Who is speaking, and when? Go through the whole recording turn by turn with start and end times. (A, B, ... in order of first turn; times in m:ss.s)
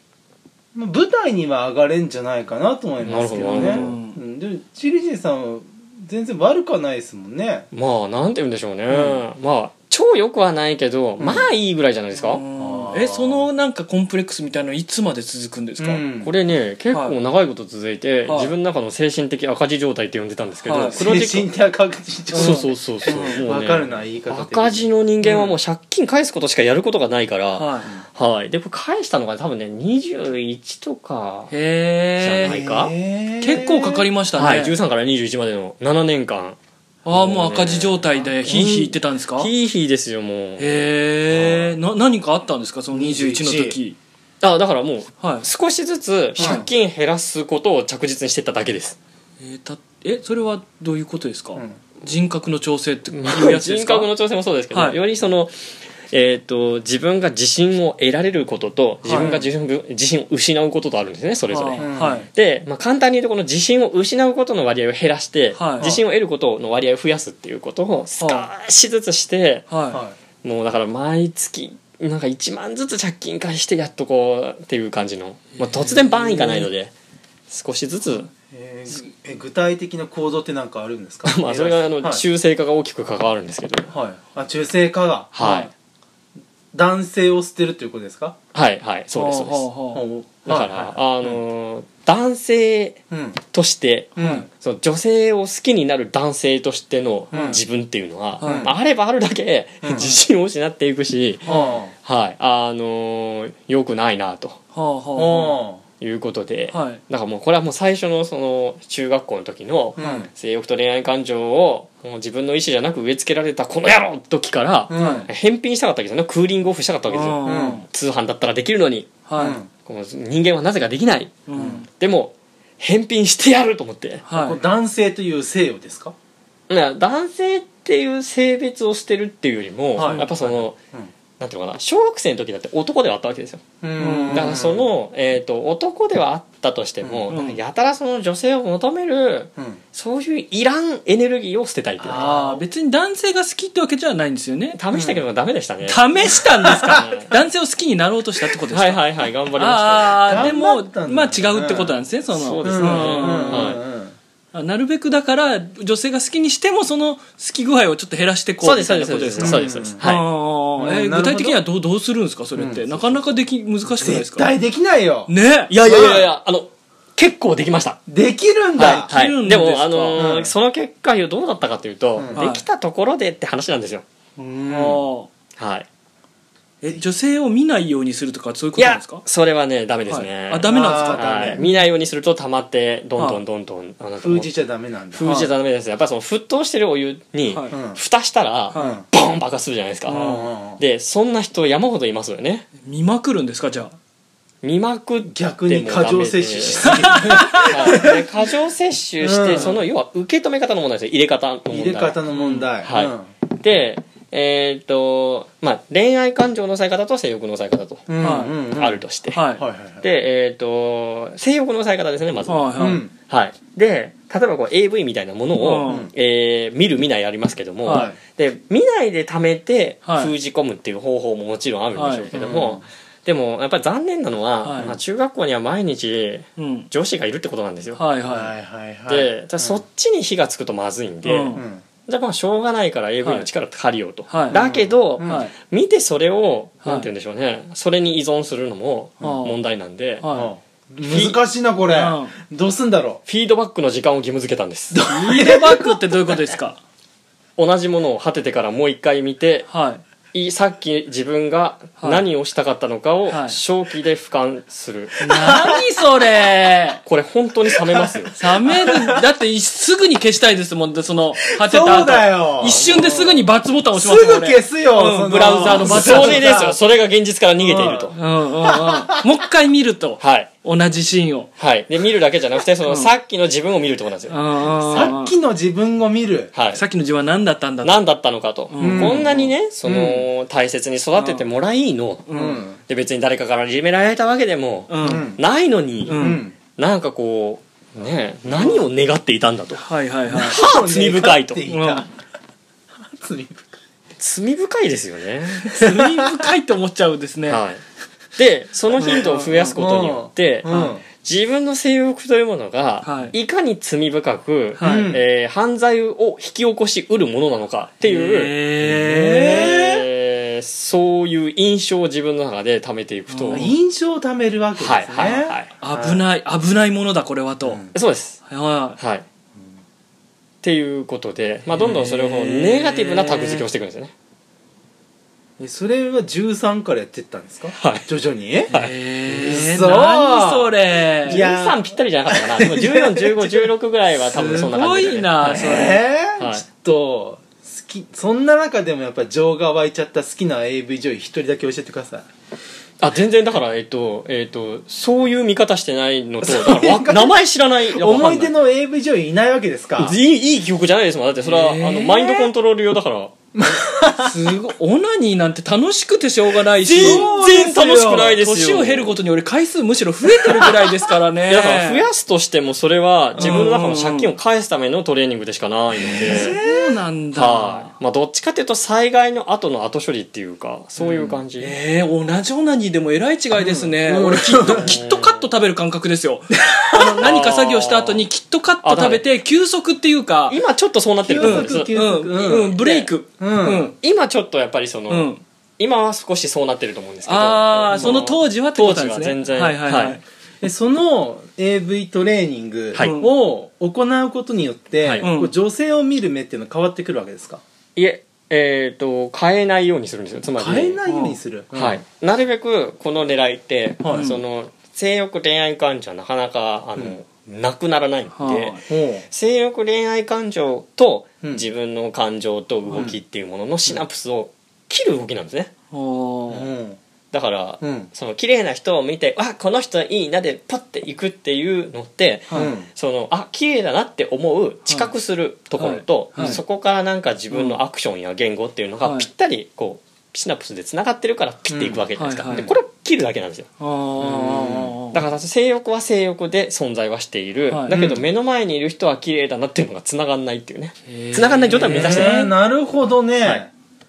0:00.7-0:07.7 A
0:03.0-0:04.0 B
0:03.4-0:04.2 C
0:07.7-0:12.4 B
0:08.9-0:09.2 A
0:11.2-0:11.5 A
0:12.2-0:16.0 C
0:12.6-0:13.4 A
0:15.8-0:16.3 A
0:16.2-0:21.5 B
0:16.9-0:17.2 C
0:18.3-0:18.5 C
0:20.6-0:21.0 C
0:20.8-0:25.6 A
0:22.3-0:23.4 C
0:22.3-0:31.5 B
0:27.5-0:27.9 C
0:31.5-0:32.6 C
0:32.2-0:32.9 B
0:32.4-0:34.1 A
0:33.4-0:34.7 C
0:34.3-0:36.6 B
0:37.0-0:39.5 C
0:37.1-0:41.7 B
0:40.6-0:44.0 C
0:42.9-0:43.8 A
0:44.4-0:49.0 B
0:45.2-0:45.5 C
0:46.4-0:46.7 C
0:46.4-0:46.6 A
0:49.4-0:54.1 C
0:53.1-0:55.5 B
0:54.7-0:55.0 C
0:56.1-1:09.7 B
0:59.0-0:59.4 C
0:59.1-0:59.4 A
1:01.5-1:02.3 C
1:01.8-1:02.2 A
1:05.5-1:05.9 C
1:08.2-1:08.5 C
1:09.7-1:10.0 C
1:09.9-1:10.2 A
1:10.4-1:16.9 B
1:15.6-1:16.7 C
1:17.5-1:18.3 B
1:18.5-1:22.2 A
1:21.2-1:23.9 B
1:23.9-1:25.3 A
1:25.3-1:25.7 B
1:25.4-1:25.7 C
1:26.7-1:28.4 A
1:28.5-1:29.7 B
1:29.1-1:30.0 C
1:29.9-1:31.3 A
1:30.4-1:33.0 B
1:33.1-1:33.4 A
1:33.5-1:44.6 B
1:34.2-1:34.4 A
1:34.2-1:34.5 C
1:37.3-1:37.6 A
1:38.4-1:38.7 C
1:38.4-1:38.7 A
1:39.8-1:40.1 A
1:41.4-1:41.8 C
1:41.4-1:41.9 A
1:44.7-1:45.6 C
1:45.2-1:45.8 A
1:46.0-1:59.2 B
1:46.7-1:47.0 C
1:50.0-1:50.3 A
1:54.9-1:55.3 A
1:54.9-1:55.3 C
1:57.1-1:57.8 C
1:57.4-1:57.8 A
1:59.3-1:59.6 C
1:59.4-1:59.7 A
1:59.8-2:04.2 B
2:01.5-2:01.8 C
2:01.6-2:01.8 A
2:04.3-2:04.6 C
2:04.3-2:06.1 A
2:06.7-2:10.8 B
2:10.0-2:11.1 A
2:10.0-2:10.3 C
2:11.4-2:13.6 B
2:13.8-2:14.9 A
2:14.0-2:14.5 C
2:14.3-2:22.2 B
2:17.0-2:17.3 A
2:17.3-2:17.6 C
2:22.0-2:22.6 A
2:22.1-2:24.8 C
2:24.8-2:26.1 B
2:24.9-2:25.2 A
2:25.8-2:33.7 C
2:26.6-2:27.1 A
2:26.6-2:27.3 B
2:28.7-2:30.6 B
2:30.3-2:31.9 A
2:32.3-2:33.8 B
2:32.6-2:34.2 A
2:34.5-2:44.5 C
2:38.6-2:40.2 B
2:39.4-2:40.0 A
2:40.8-2:41.6 A
2:42.6-2:43.1 A
2:43.9-2:45.3 A
2:45.3-2:45.7 C
2:45.7-2:48.0 B
2:45.8-2:46.3 A
2:48.1-2:49.1 A
2:48.8-2:54.0 B
2:49.1-2:50.2 C
2:50.1-2:50.5 A
2:52.3-2:52.6 C
2:54.4-2:55.0 A
2:54.7-2:55.3 C
2:55.6-2:55.9 B
2:56.8-2:59.2 C
2:58.8-3:04.5 B
3:00.1-3:01.7 C
3:00.7-3:01.6 A
3:04.2-3:05.3 A
3:05.1-3:12.7 B
3:05.2-3:05.5 C
3:07.5-3:07.8 C
3:07.7-3:08.0 A
3:08.7-3:09.0 C
3:08.7-3:09.0 A
3:10.1-3:10.5 C
3:10.1-3:10.8 A
3:12.8-3:14.0 C
3:14.6-3:22.2 B
3:15.3-3:18.3 A
3:16.9-3:18.0 C
3:19.2-3:19.8 A
3:21.7-3:23.3 A
3:22.3-3:22.7 C
3:22.8-3:29.4 B
3:28.1-3:29.0 A
3:28.2-3:28.5 C
3:29.3-3:29.6 C
3:29.6-3:30.0 A
3:30.0-3:32.6 B
3:32.5-3:33.0 C
3:32.8-3:33.1 A
3:33.2-3:48.0 B
3:35.6-3:36.1 C
3:35.8-3:36.1 A
3:37.8-3:38.1 C
3:37.9-3:38.2 A
3:40.0-3:40.3 C
3:41.9-3:42.3 C
3:42.3-3:42.8 A
3:44.6-3:44.9 C
3:46.6-3:46.9 C
3:48.0-3:48.5 C
3:48.3-3:49.8 A
3:49.1-4:00.2 B
3:51.2-3:51.6 C
3:51.5-3:51.8 A
3:53.2-3:53.5 C
3:54.3-3:54.6 C
3:54.5-3:55.4 A
3:55.2-3:55.5 C
3:56.8-3:57.1 C
3:59.2-3:59.6 C
4:00.2-4:00.5 C
4:00.3-4:03.2 A
4:01.0-4:01.4 B
4:01.9-4:02.3 C
4:03.3-4:05.0 B
4:04.9-4:06.4 A
4:05.1-4:06.8 C
4:07.6-4:09.7 B
4:09.7-4:10.0 C
4:10.3-4:15.2 B
4:12.0-4:12.2 C
4:13.3-4:13.6 C
4:15.2-4:17.0 C
4:15.2-4:15.8 A
4:17.0-4:18.3 B
4:17.7-4:19.2 A
4:18.4-4:26.4 C
4:21.5-4:26.8 A
4:22.6-4:22.9 B
4:25.3-4:28.2 B
4:27.6-4:29.2 A
4:28.1-4:31.5 C
4:30.2-4:30.5 B
4:31.6-4:34.4 B
4:34.3-4:35.3 C
4:34.8-4:36.5 A
4:36.5-4:36.8 B
4:36.7-4:38.0 C
4:37.8-4:51.6 B
4:38.7-4:39.5 C
4:38.8-4:40.2 A
4:41.2-4:41.4 C
4:42.3-4:42.6 C
4:42.3-4:42.8 A
4:44.9-4:45.3 C
4:45.0-4:45.4 A
4:46.0-4:46.4 C
4:46.1-4:46.5 A
4:48.5-4:48.8 C
4:49.8-4:50.6 C
4:50.4-4:52.1 A
4:51.7-4:52.0 C
4:53.2-4:53.8 A
4:54.2-4:55.9 B
4:55.5-4:57.6 C
4:55.9-4:56.2 A
4:57.5-4:57.8 B
4:58.4-5:08.5 B
4:59.0-4:59.8 C
4:59.7-5:01.0 A
5:00.7-5:01.0 C
5:03.0-5:03.3 C
5:04.8-5:05.1 C
5:04.8-5:05.2 A
5:08.0-5:09.8 C
5:08.8-5:10.0 A
5:09.4-5:13.7 B
5:13.3-5:13.7 C
5:13.5-5:16.2 A
5:14.8-5:15.7 B
5:15.8-5:17.8 C
5:17.6-5:17.9 A
5:17.9-5:18.4 B
5:18.4-5:19.0 C
5:19.0-5:19.2 B
5:20.6-5:24.1 B
5:21.7-5:23.6 C
5:25.6-5:28.7 A
5:27.7-5:28.1 B
5:28.7-5:31.4 C
5:29.3-5:33.7 A
5:31.3-5:35.8 B
5:34.2-5:36.0 C
5:35.5-5:42.3 A
5:36.4-5:36.6 B
5:43.0-5:48.5 B
5:46.4-5:47.4 A
5:47.9-5:50.2 A
5:50.0-5:53.8 B
5:51.4-5:52.5 C
5:53.6-5:54.4 A
5:54.2-6:02.0 C
5:56.8-5:58.3 A
5:56.9-5:59.1 B
6:01.5-6:06.6 B
6:03.4-6:04.3 C
6:06.1-6:07.0 A
6:06.2-6:08.0 C
6:07.3-6:11.7 B
6:11.0-6:20.6 C
6:13.6-6:15.0 A
6:14.7-6:15.4 B
6:17.1-6:18.2 B
6:18.8-6:19.2 B
6:20.5-6:21.9 B
6:21.2-6:22.8 A
6:21.4-6:24.0 C
6:22.7-6:23.1 B
6:23.4-6:23.9 A
6:24.0-6:30.2 B
6:25.1-6:25.4 C
6:27.2-6:30.2 C
6:27.9-6:28.3 A
6:30.6-6:37.6 A
6:33.0-6:33.3 C
6:35.0-6:35.3 B
6:35.2-6:35.5 C
6:38.0-6:41.0 B
6:40.6-6:42.0 A
6:41.1-6:41.4 C
6:41.7-6:55.7 B
6:44.1-6:44.4 C
6:48.3-6:48.8 C
6:48.9-6:49.2 A
6:51.4-6:51.7 A
6:52.9-6:53.2 A
6:55.9-6:56.7 C
6:56.5-6:57.0 A
6:57.3-7:13.7 B
6:57.8-6:58.1 A
7:02.5-7:02.9 A
7:05.8-7:06.6 C
7:07.5-7:07.8 C
7:09.0-7:09.3 C
7:11.7-7:12.7 A
7:12.2-7:12.7 C
7:13.8-7:15.2 C
7:14.3-7:14.9 A
7:15.1-7:22.4 B
7:17.7-7:18.0 C
7:17.9-7:18.2 A
7:21.1-7:22.5 C
7:21.8-7:23.7 A